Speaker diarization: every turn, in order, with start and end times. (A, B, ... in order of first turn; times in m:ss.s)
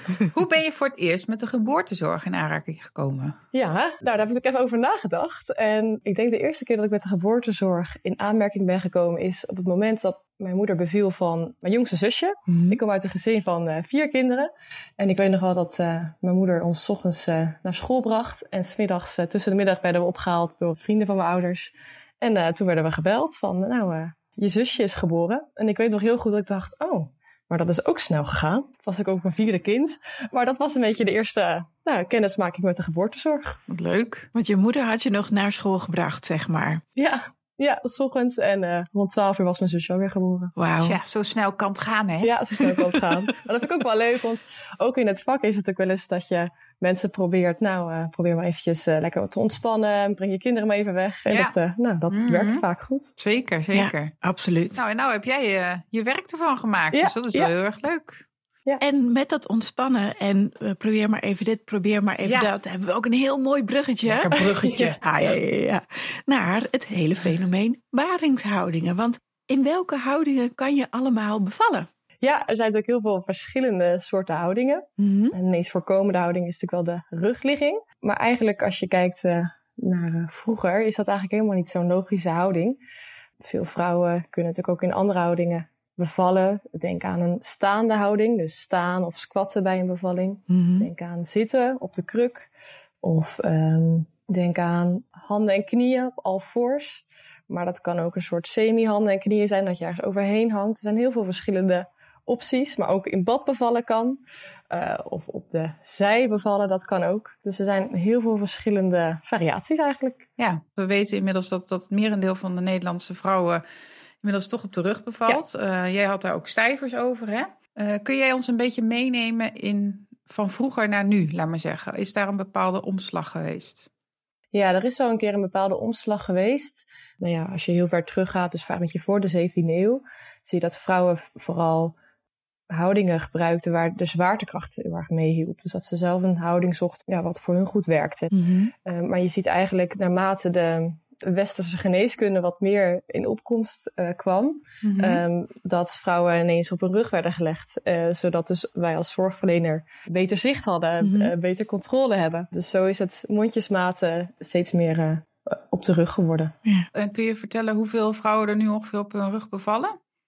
0:00.3-0:03.4 A
0:03.5-0:33.6 B
0:12.5-0:12.8 C
0:33.7-0:34.3 A
0:34.3-0:36.8 C
0:37.0-0:40.6 B
0:40.6-0:41.0 C
0:40.8-0:42.7 A
0:42.2-0:53.1 B
0:51.3-0:51.5 A
0:52.1-0:52.6 A
0:53.2-0:54.1 A
0:53.7-0:54.8 C
0:54.7-0:58.2 A
0:56.9-0:57.5 B
0:58.8-1:11.9 C
1:02.2-1:02.5 A
1:04.0-1:05.0 A
1:04.4-1:04.9 B
1:12.2-1:22.8 B
1:15.0-1:15.4 C
1:23.4-1:32.5 B
1:30.5-1:30.9 C
1:33.0-1:50.2 B
1:50.4-1:53.6 A
1:54.2-2:03.9 A
2:04.5-2:11.9 B
2:12.7-2:18.3 B
2:18.3-2:18.7 C
2:18.8-2:36.5 B
2:24.8-2:25.2 A
2:31.0-2:31.3 C
2:36.9-2:40.0 A